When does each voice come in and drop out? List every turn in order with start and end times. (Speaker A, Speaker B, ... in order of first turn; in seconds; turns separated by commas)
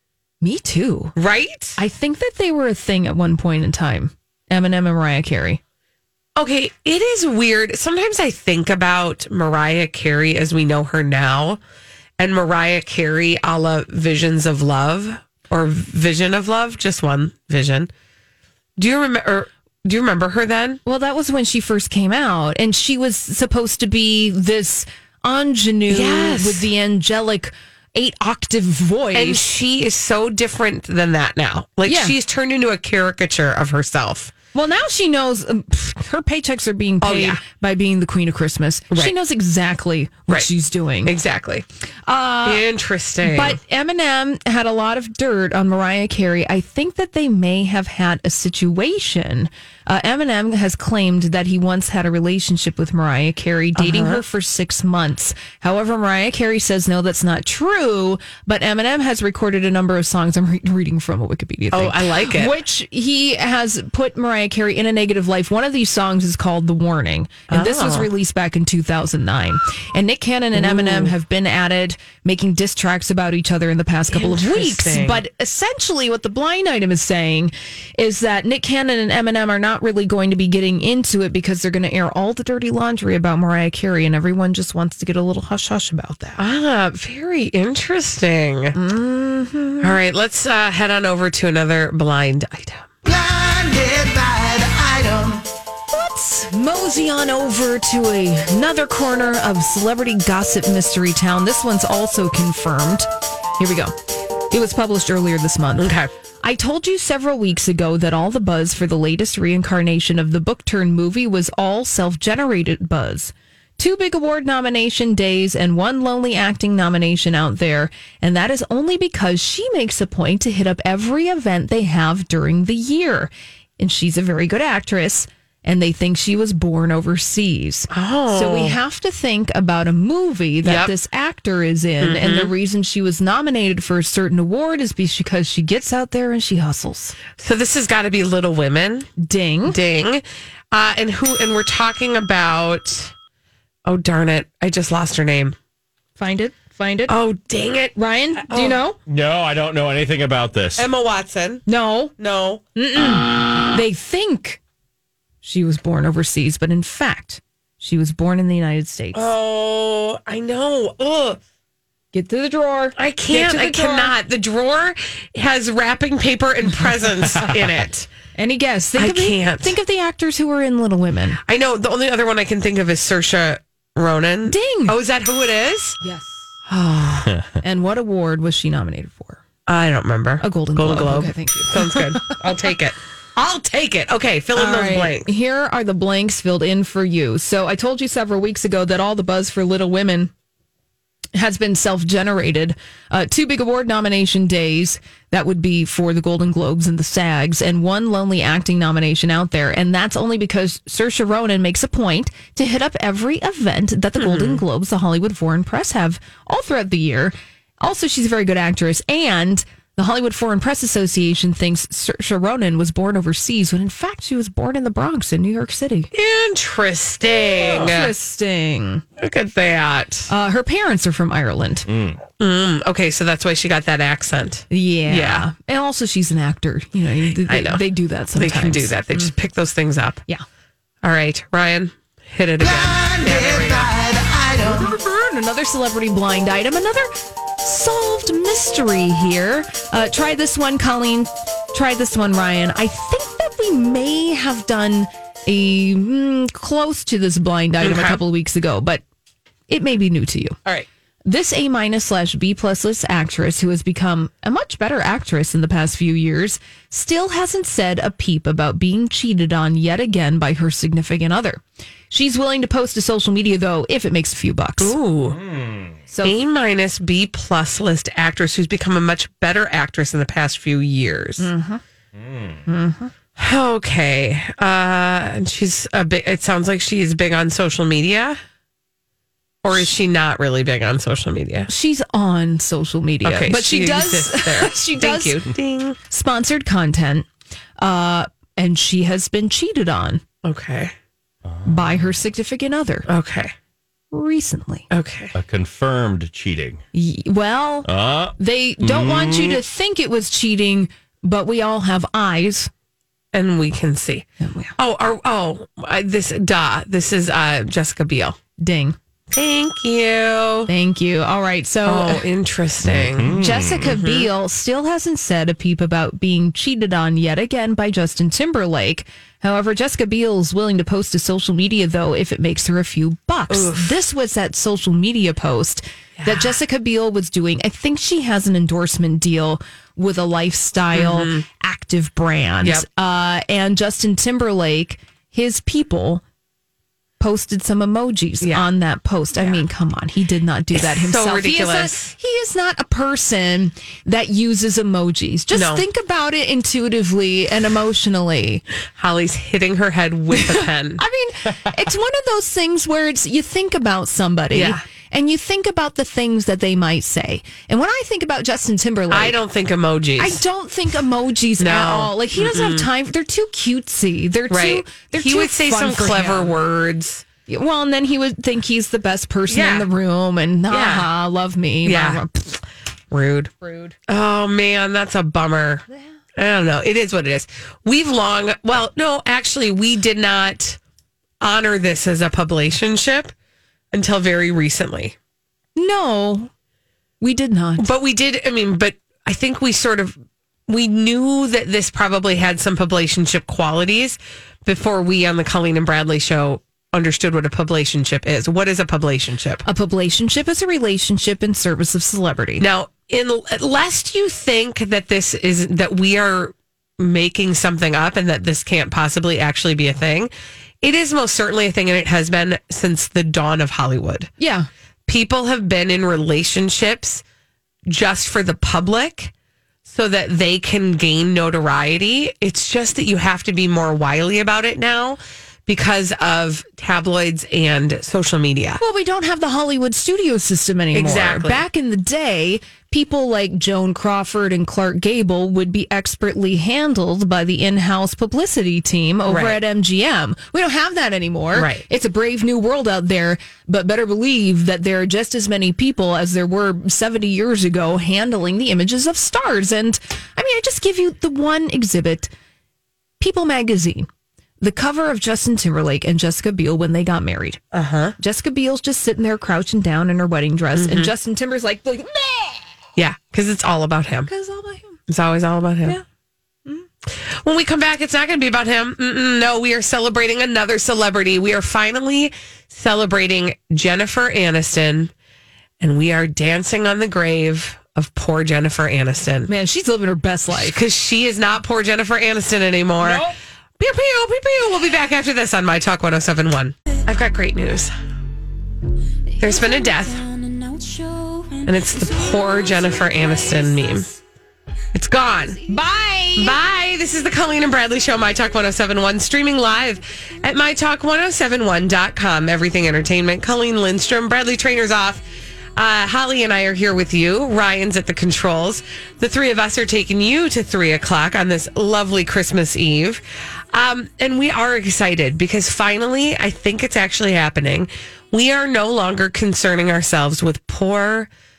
Speaker A: 0.4-1.1, Speaker B: 1.2-1.8, Speaker A: 1.8-5.6, Speaker B: 6.4-11.6, Speaker B: 12.2-17.9, Speaker B: 18.8-20.8, Speaker A: 20.9-29.4, Speaker B: 25.9-26.7, Speaker B: 29.1-34.3, Speaker A: 31.9-32.1, Speaker A: 34.5-41.1, Speaker B: 37.0-37.4, Speaker B: 41.0-41.6, Speaker A: 42.1-42.6, Speaker B: 42.5-43.6, Speaker A: 43.2-86.4, Speaker B: 53.8-54.2, Speaker B: 61.7-62.6, Speaker B: 67.5-68.1, Speaker B: 70.5-71.1, Speaker B: 74.1-75.2, Speaker B: 86.4-88.8, Speaker A: 88.8-90.0, Speaker B: 89.8-92.9, Speaker C: 93.1-95.4, Speaker A: 95.9-103.1, Speaker A: 103.6-103.9, Speaker A: 104.5-105.9, Speaker B: 105.8-106.1, Speaker A: 106.4-137.2, Speaker B: 127.9-128.8, Speaker B: 130.6-130.9, Speaker B: 132.0-132.5, Speaker B: 137.4-139.1, Speaker A: 139.2-139.8, Speaker B: 139.7-143.1, Speaker B: 143.8-145.6, Speaker A: 146.2-147.2, Speaker B: 147.1-148.8, Speaker A: 148.0-149.0, Speaker D: 149.1-150.9, Speaker B: 150.8-151.7, Speaker A: 151.7-152.1, Speaker B: 152.2-152.6, Speaker A: 152.8-154.6, Speaker A: 155.4-159.3, Speaker B: 159.1-161.4, Speaker A: 162.1-164.1, Speaker B: 163.0-168.1, Speaker A: 168.4-171.4, Speaker B: 169.0-169.8, Speaker B: 171.5-176.0, Speaker A: 174.5-175.0, Speaker A: 176.0-176.4, Speaker B: 176.7-177.3, Speaker A: 177.6-179.4, Speaker B: 179.7-185.3, Speaker A: 180.4-182.4, Speaker A: 184.6-190.3, Speaker A: 191.3-216.1, Speaker B: 204.2-204.6, Speaker B: 216.1-218.1, Speaker A: 217.6-219.0, Speaker B: 219.2-220.3, Speaker A: 220.3-221.9, Speaker D: 221.9-222.2, Speaker B: 222.4-225.5, Speaker A: 224.7-229.3, Speaker B: 227.4-227.8, Speaker B: 228.3-230.2, Speaker B: 231.0-234.5, Speaker A: 234.6-237.1, Speaker A: 237.6-249.0, Speaker B: 247.8-248.2, Speaker A: 249.7-250.6, Speaker A: 251.3-264.9, Speaker B: 264.8-265.4, Speaker D: 265.3-265.9, Speaker A: 266.1-266.4, Speaker B: 266.2-271.5, Speaker A: 271.4-271.8, Speaker D: 272.1-272.6, Speaker A: 272.7-273.1, Speaker B: 273.4-278.4, Speaker B: 279.6-281.7, Speaker A: 281.7-285.4, Speaker B: 283.2-286.0, Speaker A: 286.1-287.3, Speaker A: 287.8-290.2, Speaker B: 290.4-290.9, Speaker D: 291.5-292.0, Speaker A: 291.6-293.1, Speaker B: 293.1-293.5, Speaker A: 294.1-294.9, Speaker B: 294.9-295.3, Speaker D: 295.3-296.8, Speaker A: 296.9-302.7, Speaker D: 297.9-299.6, Speaker B: 303.3-304.3, Speaker A: 304.4-304.7, Speaker B: 304.8-308.4, Speaker A: 308.6-309.0, Speaker B: 309.3-310.7, Speaker A: 310.7-312.3, Speaker B: 311.9-314.3, Speaker D: 312.8-314.0, Speaker A: 313.3-336.2, Speaker B: 323.5-323.9, Speaker B: 326.2-326.6, Speaker B: 330.9-331.4, Speaker A: 337.2-348.6, Speaker B: 339.4-339.6, Speaker B: 340.8-342.1, Speaker B: 345.5-345.8, Speaker B: 349.0-351.0, Speaker A: 350.4-359.4, Speaker B: 354.5-354.8, Speaker B: 359.1-360.4, Speaker A: 360.2-366.6, Speaker B: 361.6-362.9, Speaker B: 364.5-367.2, Speaker A: 367.5-372.6, Speaker B: 369.5-369.9, Speaker B: 370.7-371.1, Speaker B: 371.9-372.2, Speaker B: 373.1-375.9, Speaker A: 373.6-373.9, Speaker B: 376.4-380.8, Speaker B: 381.4-383.3, Speaker B: 383.9-385.1, Speaker A: 385.8-386.5, Speaker A: 387.2-387.9, Speaker B: 387.8-390.1, Speaker B: 390.7-399.6, Speaker A: 399.7-402.6, Speaker B: 402.6-410.3, Speaker B: 410.8-414.3, Speaker A: 414.4-414.7, Speaker B: 415.1-417.2, Speaker B: 417.9-419.3, Speaker B: 419.9-428.8, Speaker A: 428.8-452.3, Speaker B: 430.9-431.6, Speaker B: 439.3-439.6, Speaker B: 441.5-441.8, Speaker A: 453.2-454.1, Speaker A: 454.6-457.6, Speaker B: 457.7-458.2, Speaker A: 458.2-462.6, Speaker B: 460.8-461.1, Speaker B: 463.0-464.3, Speaker A: 464.3-465.0, Speaker B: 465.1-466.0, Speaker B: 467.1-475.1, Speaker B: 475.8-479.5, Speaker A: 479.5-480.8, Speaker B: 480.5-483.3, Speaker A: 483.0-483.3, Speaker B: 483.8-487.9, Speaker B: 489.4-490.3, Speaker A: 489.5-489.8, Speaker A: 490.8-491.6, Speaker B: 491.7-494.1, Speaker A: 492.2-493.9, Speaker B: 494.9-495.6, Speaker A: 495.6-496.6, Speaker B: 496.4-505.2, Speaker B: 505.8-521.3